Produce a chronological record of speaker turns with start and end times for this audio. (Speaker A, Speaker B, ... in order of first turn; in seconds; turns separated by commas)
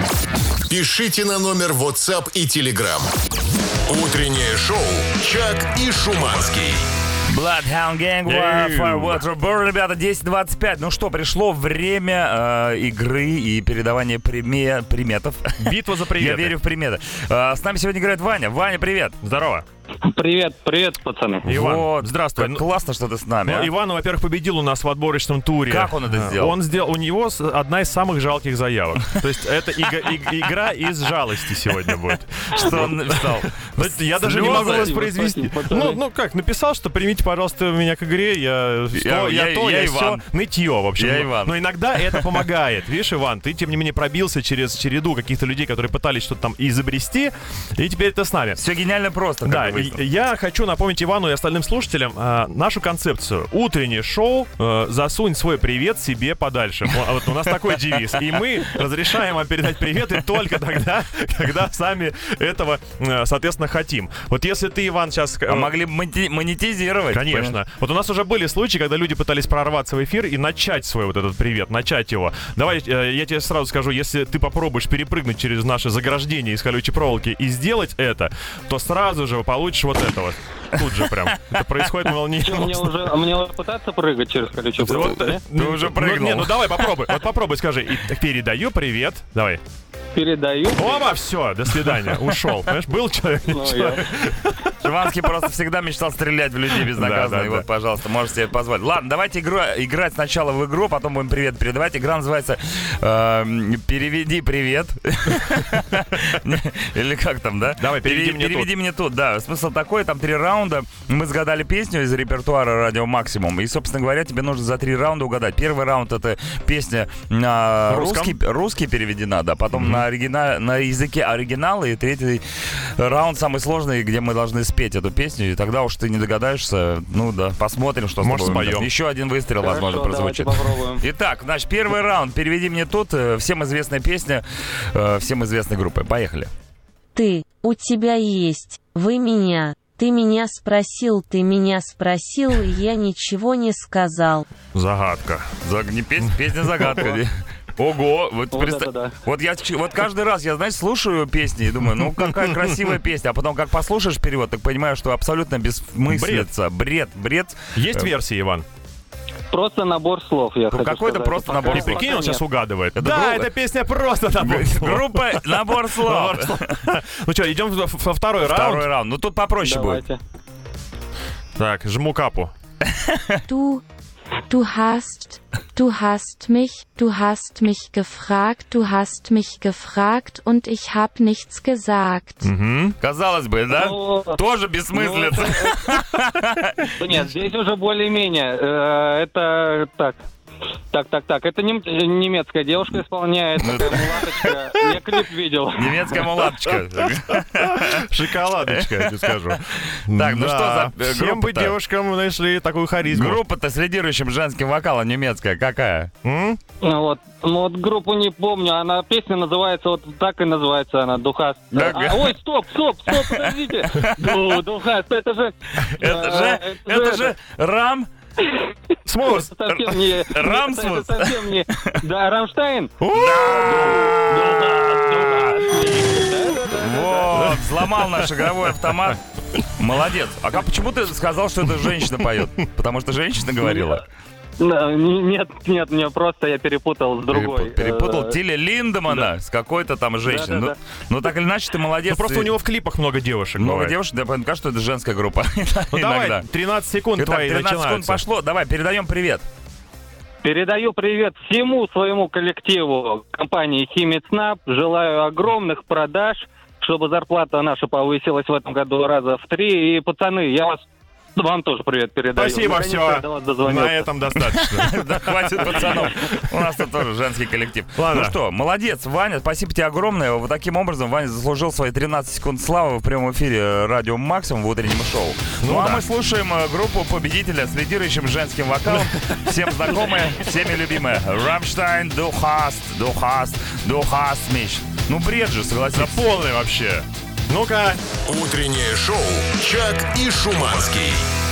Speaker A: 0.7-3.1, Speaker A: 3.9-6.9, Speaker B: 7.3-19.1, Speaker C: 8.2-9.2, Speaker C: 15.6-16.6, Speaker C: 19.2-19.6, Speaker D: 20.0-21.5, Speaker C: 21.4-22.6, Speaker B: 21.5-23.7, Speaker C: 23.4-48.6, Speaker B: 25.7-26.6, Speaker B: 32.5-35.0, Speaker D: 34.3-36.0, Speaker B: 38.9-40.2, Speaker B: 41.0-42.3, Speaker B: 48.5-50.0, Speaker C: 49.4-65.7, Speaker B: 65.5-67.6, Speaker C: 67.1-83.1, Speaker D: 82.4-85.4, Speaker C: 84.8-89.6, Speaker B: 84.9-86.8, Speaker D: 90.1-91.1, Speaker C: 90.7-94.7, Speaker D: 93.5-94.0, Speaker B: 94.8-122.4, Speaker C: 96.7-97.7, Speaker C: 107.8-108.7, Speaker C: 117.9-118.4, Speaker C: 119.7-120.0, Speaker B: 123.0-136.5, Speaker C: 128.2-128.9, Speaker D: 129.6-131.0, Speaker E: 137.1-144.4, Speaker C: 144.7-145.5, Speaker B: 145.6-158.1, Speaker D: 148.5-149.2, Speaker C: 156.1-156.5, Speaker C: 157.7-158.7, Speaker D: 159.5-162.4, Speaker B: 160.7-162.0, Speaker C: 161.6-168.9, Speaker B: 162.9-163.5, Speaker B: 164.4-166.9, Speaker B: 168.4-170.0, Speaker D: 169.6-170.2, Speaker C: 171.6-172.5, Speaker B: 172.8-173.4, Speaker F: 173.5-173.8, Speaker F: 174.5-182.5, Speaker C: 182.4-183.0, Speaker B: 183.0-187.0, Speaker D: 183.7-184.4, Speaker D: 184.9-186.0, Speaker D: 187.0-190.2, Speaker D: 190.9-196.3, Speaker B: 193.6-194.5, Speaker B: 195.7-198.1, Speaker C: 196.6-203.4, Speaker B: 198.6-201.8, Speaker B: 203.1-206.1, Speaker C: 206.2-206.6, Speaker D: 206.8-217.3, Speaker B: 211.7-212.3, Speaker B: 213.1-214.4, Speaker B: 215.8-218.1, Speaker D: 218.4-218.7, Speaker C: 219.1-219.5, Speaker D: 219.2-227.5, Speaker B: 220.1-222.0, Speaker C: 223.0-224.1, Speaker B: 223.1-225.7, Speaker B: 226.7-234.0, Speaker C: 227.4-229.1, Speaker C: 231.8-232.3, Speaker D: 233.6-234.0, Speaker D: 234.6-238.3, Speaker B: 237.3-242.5, Speaker D: 240.2-240.7, Speaker C: 242.1-244.0, Speaker B: 243.6-246.4, Speaker C: 245.9-248.2, Speaker B: 247.2-249.4, Speaker D: 250.4-260.8, Speaker D: 261.4-264.1, Speaker C: 262.3-266.7, Speaker B: 264.5-286.2, Speaker D: 265.7-266.1, Speaker C: 267.9-268.4, Speaker C: 275.6-276.0, Speaker C: 278.9-279.5, Speaker C: 285.9-288.0, Speaker A: 288.2-291.3